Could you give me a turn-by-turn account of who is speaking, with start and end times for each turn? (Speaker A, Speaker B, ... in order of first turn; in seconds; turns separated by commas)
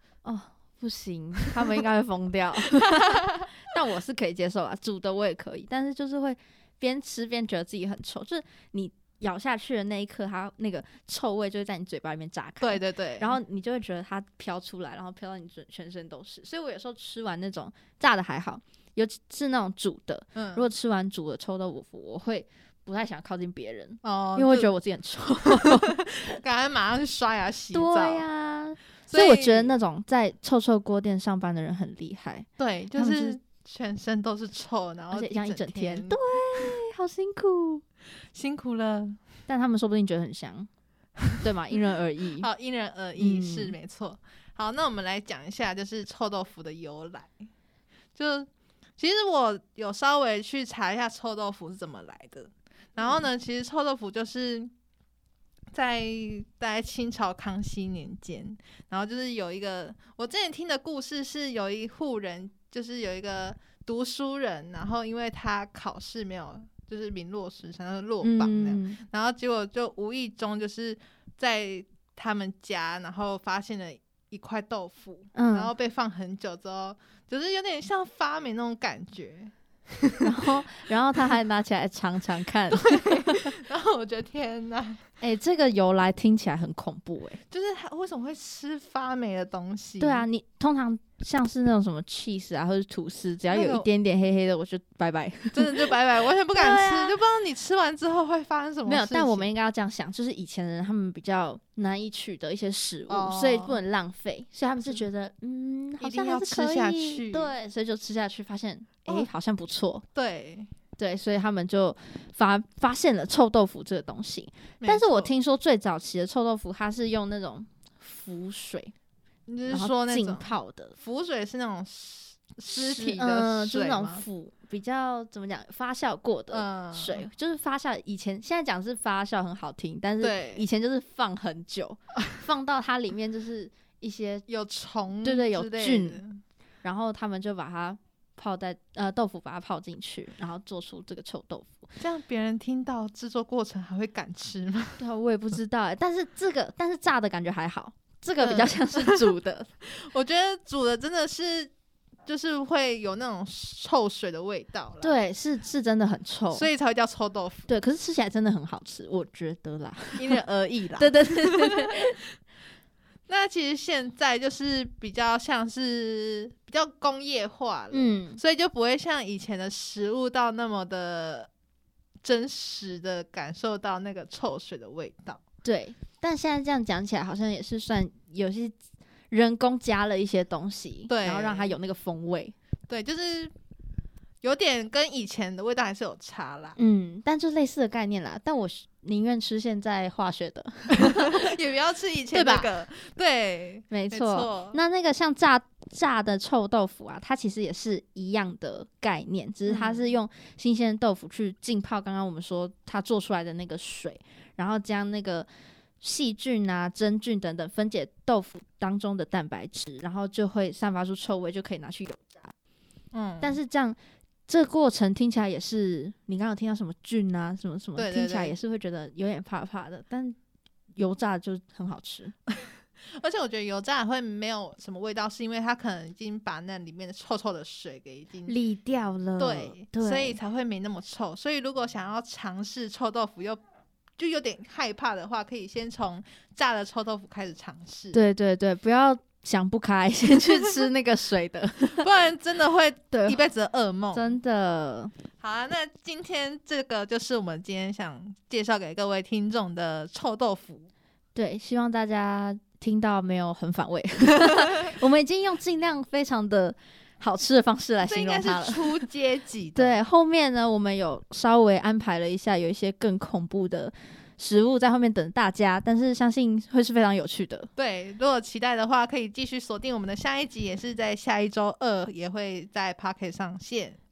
Speaker A: 0.2-25.9, Speaker B: 12.6-13.4, Speaker B: 20.4-20.7, Speaker B: 24.0-24.7, Speaker B: 25.5-28.2, Speaker A: 27.7-33.4, Speaker B: 29.1-29.7, Speaker B: 32.6-36.2, Speaker A: 35.1-37.8, Speaker B: 38.3-39.2, Speaker A: 39.5-40.7, Speaker A: 41.4-42.5, Speaker B: 42.4-47.4, Speaker A: 43.2-43.8, Speaker B: 48.1-54.7, Speaker B: 55.7-80.3, Speaker A: 68.2-69.0, Speaker A: 75.3-75.7, Speaker A: 80.2-83.5, Speaker B: 82.7-85.0, Speaker A: 85.2-87.4, Speaker B: 87.5-90.3, Speaker A: 90.0-95.9, Speaker B: 93.5-93.9, Speaker B: 95.5-99.5, Speaker A: 96.5-97.2, Speaker A: 98.9-110.0, Speaker B: 103.1-103.8, Speaker B: 106.0-107.5, Speaker B: 110.2-110.7, Speaker A: 111.0-118.9, Speaker B: 114.8-115.3, Speaker B: 119.5-124.2, Speaker A: 119.7-121.0, Speaker A: 122.7-134.4, Speaker B: 126.5-127.3, Speaker B: 130.2-130.7, Speaker B: 134.5-136.4, Speaker A: 135.2-136.2, Speaker A: 136.8-141.9, Speaker B: 142.0-145.0, Speaker A: 145.0-149.7, Speaker B: 148.4-149.2, Speaker B: 149.8-151.7, Speaker B: 152.3-155.2, Speaker A: 155.0-156.7, Speaker B: 156.5-157.7, Speaker A: 157.7-160.4, Speaker B: 160.2-161.8, Speaker A: 161.0-162.2, Speaker B: 163.3-171.5, Speaker A: 167.9-168.4, Speaker B: 172.2-175.4, Speaker A: 175.6-178.8, Speaker A: 179.3-182.6, Speaker B: 181.1-181.8, Speaker B: 182.9-183.5, Speaker B: 184.4-186.8, Speaker A: 186.8-191.5, Speaker B: 190.9-194.8, Speaker A: 192.3-192.7, Speaker A: 193.9-205.5, Speaker B: 199.7-200.1, Speaker A: 206.0-212.5, Speaker B: 213.1-213.6, Speaker A: 213.4-214.0, Speaker A: 214.5-220.4, Speaker B: 218.0-218.6, Speaker A: 221.0-222.3, Speaker B: 223.2-228.6, Speaker A: 228.5-230.4, Speaker B: 229.4-233.6, Speaker B: 234.2-238.2, Speaker A: 238.1-242.1, Speaker B: 242.0-244.4, Speaker A: 243.1-243.4, Speaker A: 244.1-245.1, Speaker B: 245.4-250.9, Speaker A: 251.3-259.0, Speaker B: 258.0-260.0, Speaker A: 259.8-267.7, Speaker B: 267.8-274.0